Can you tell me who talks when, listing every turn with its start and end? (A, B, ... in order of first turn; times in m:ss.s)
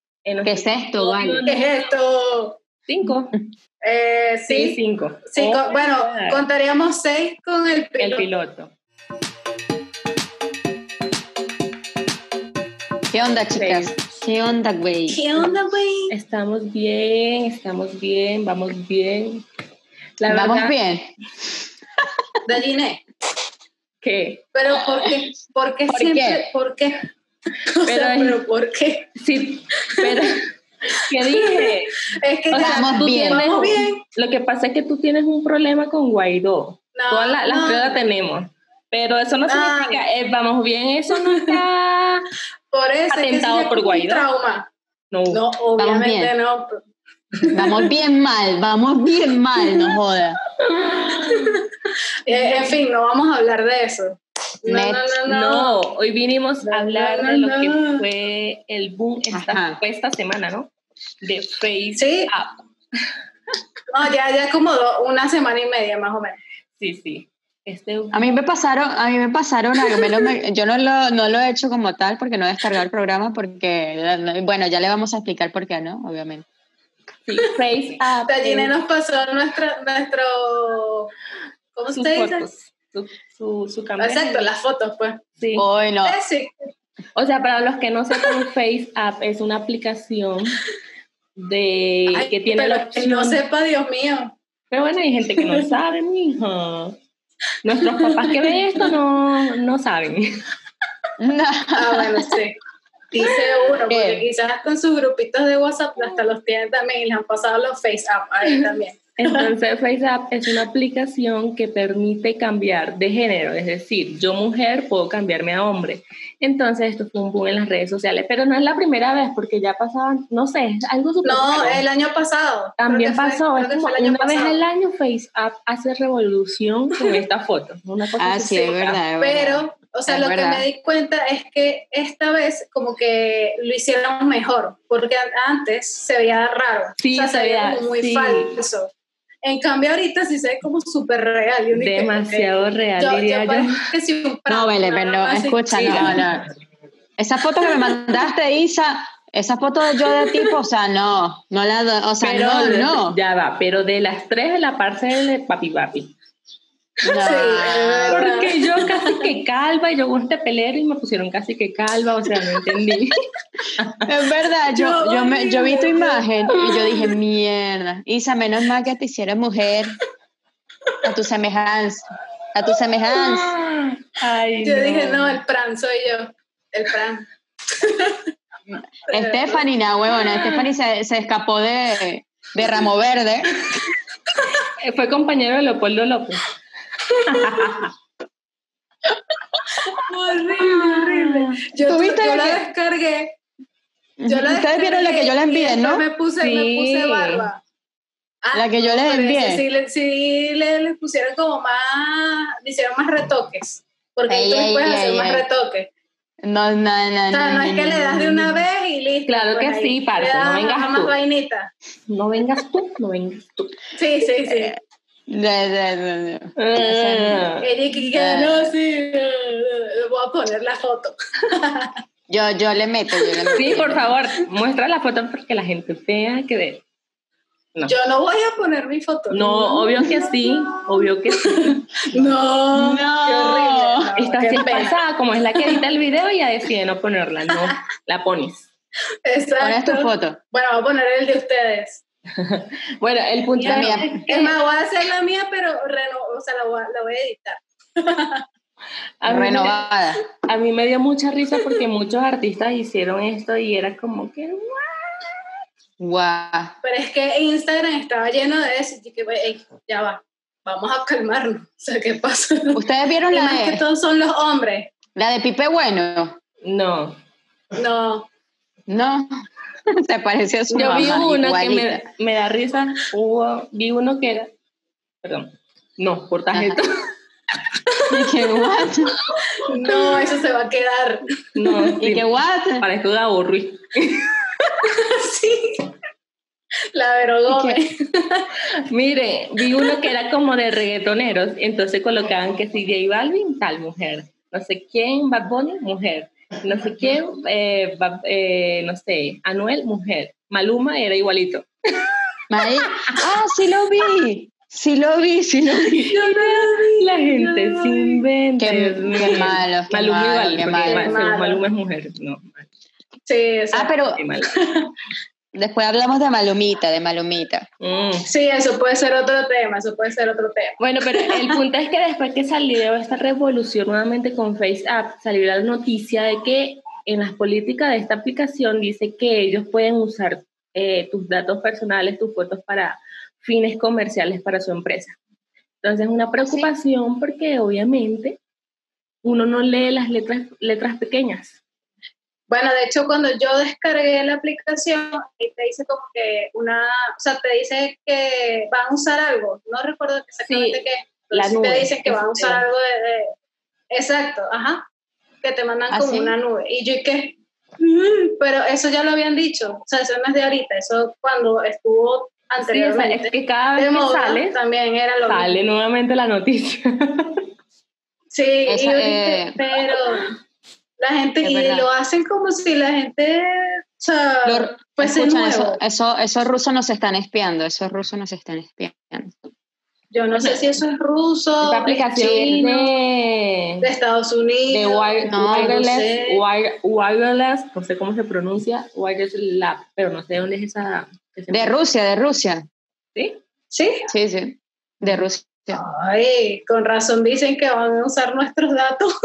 0:00.3-0:01.7 A
0:00.4-0:01.4 B
0:01.5-0:02.6 C
0:02.9-0:03.4 A
0:03.8-0:04.8 C
0:04.5-0:06.4 A
0:05.3-0:08.3 C
0:08.0-0:08.7 A
0:13.1-0:15.3 B
0:13.6-0:13.9 A
0:15.1-0:16.1 C
0:16.1-0:19.4 A
0:20.2-0:20.8 A
0:20.3-0:21.1 B
0:22.5-0:23.0 C
0:24.0-0:24.5 A
0:24.6-0:27.1 C
0:24.8-0:25.2 B
0:25.9-0:26.5 B
0:27.7-0:29.1 C
0:27.9-0:28.4 A
0:29.2-0:30.4 A
0:30.0-0:30.3 C
0:31.1-0:32.0 A
0:31.2-0:34.0 C
0:32.5-0:42.3 A
0:32.6-0:33.5 B
0:37.0-0:38.0 C
0:39.5-0:40.0 C
0:41.2-0:41.6 C
0:42.7-0:44.7 C
0:43.1-0:44.3 A
0:45.1-0:45.4 A
0:45.3-0:46.8 C
0:45.8-0:46.3 B
0:47.4-0:47.9 C
0:47.5-0:50.4 B
0:49.6-0:49.9 C
0:50.6-0:51.6 A
0:51.0-0:51.6 C
0:52.3-0:55.8 C
0:52.3-0:52.8 A
0:54.7-0:55.2 B
0:55.3-1:00.7 A
0:56.6-0:58.0 C
0:59.3-0:59.8 B
1:01.2-1:02.7 A
1:02.0-1:02.3 C
1:03.9-1:06.4 C
1:06.8-1:08.4 A
1:08.1-1:16.4 B
1:10.0-1:10.3 C
1:17.3-1:18.7 A
1:18.3-1:21.1 C
1:21.8-1:22.5 C
1:21.9-1:24.5 A
1:24.0-1:25.2 C
1:25.4-1:25.7 A
1:25.6-1:26.2 B
1:26.0-1:26.5 C
1:27.2-1:30.6 A
1:31.4-1:33.4 A
1:32.1-1:34.3 C
1:34.7-1:37.0 A
1:35.4-1:35.7 C
1:37.6-1:40.4 A
1:41.2-1:42.3 B
1:41.8-1:42.6 C
1:43.1-1:49.5 C
1:43.9-1:44.2 B
1:49.2-2:01.8 A
2:01.2-2:04.6 C
2:02.8-2:09.0 A
2:08.2-2:10.6 B
2:09.2-2:18.9 C
2:17.0-2:18.6 A
2:19.4-2:26.3 C
2:21.7-2:23.7 A
2:24.5-2:26.5 B
2:25.9-2:26.3 A
2:27.2-2:33.2 B
2:32.2-2:36.1 A
2:37.0-2:38.3 B
2:37.2-2:39.2 C
2:38.1-2:43.1 A
2:43.8-2:44.1 A
2:44.1-2:50.0 B
2:44.7-2:46.3 C
2:51.0-2:53.6 B
2:53.1-2:55.4 A
2:54.6-2:57.2 C
2:57.8-2:58.3 C
2:58.7-3:03.8 B
2:59.1-2:59.6 C
3:00.2-3:00.7 C
3:04.6-3:06.5 A
3:07.2-3:07.9 A
3:07.4-3:07.7 C
3:09.9-3:13.4 C
3:10.6-3:12.7 B
3:14.2-3:16.0 B
3:14.3-3:17.6 C
3:16.4-3:17.5 A
3:18.4-3:25.9 C
3:18.5-3:19.6 B
3:24.3-3:25.4 B
3:26.4-3:28.6 B
3:27.3-3:31.7 C
3:29.3-3:31.2 A
3:32.1-3:33.8 A
3:34.0-3:34.8 C
3:34.5-3:34.8 B
3:35.3-3:37.5 B
3:36.6-3:37.7 A
3:37.6-3:42.0 C
3:38.1-3:38.7 B
3:42.3-3:44.2 B
3:43.6-3:46.8 A
3:47.9-3:55.0 C
3:49.3-3:51.8 A
3:52.7-3:54.1 B
3:54.2-3:58.7 A
3:59.2-4:02.0 C
3:59.6-4:00.4 B
4:02.4-4:04.6 A
4:03.6-4:08.4 C
4:03.6-4:04.2 B
4:09.2-4:09.8 A
4:09.2-4:10.2 B
4:10.5-4:15.3 A
4:16.0-4:16.7 B
4:16.8-4:22.8 C
4:22.7-4:23.8 B
4:23.3-4:24.9 C
4:25.2-4:26.4 B
4:26.6-4:27.2 A
4:27.8-4:28.3 C
4:28.9-4:29.3 B
4:30.0-4:32.0 B
4:30.7-4:34.5 A
4:35.2-4:36.9 A
4:36.5-4:36.8 B
4:38.1-4:39.2 B
4:39.6-4:41.9 C
4:41.6-4:42.2 A
4:42.0-4:42.8 B
4:42.8-4:44.3 A
4:44.8-4:45.8 C
4:46.9-4:48.5 C
4:47.5-4:47.8 B
4:48.9-5:01.7 A
5:02.5-5:06.0 B
5:05.7-5:12.7 A
5:06.0-5:08.2 C
5:08.6-5:11.2 B
5:10.8-5:11.6 C
5:13.3-5:14.0 C
5:13.7-5:14.2 B
5:14.1-5:14.6 A
5:14.6-5:14.9 C
5:15.6-5:17.7 B
5:17.8-5:18.3 A
5:18.3-5:21.6 C
5:20.8-5:35.2 A
5:35.8-5:38.4 A
5:36.4-5:36.7 B
5:39.2-5:41.6 A
5:42.5-5:53.3 C
5:50.5-5:52.6 A
5:53.9-5:54.8 C
5:55.4-6:05.6 C
5:55.9-5:56.4 B
6:02.6-6:04.6 A
6:05.2-6:07.4 A
6:08.3-6:10.2 C
6:08.7-6:09.6 B
6:11.0-6:13.4 C
6:11.4-6:11.9 B
6:14.0-6:15.8 C
6:14.4-6:19.4 B
6:20.1-6:22.9 C
6:20.4-6:20.7 A
6:21.6-6:23.9 A
6:23.8-6:26.4 C
6:24.7-6:31.8 A
6:25.3-6:25.7 B
6:31.5-6:32.7 B
6:33.7-6:34.1 C
6:34.1-6:35.8 B
6:35.7-6:39.1 C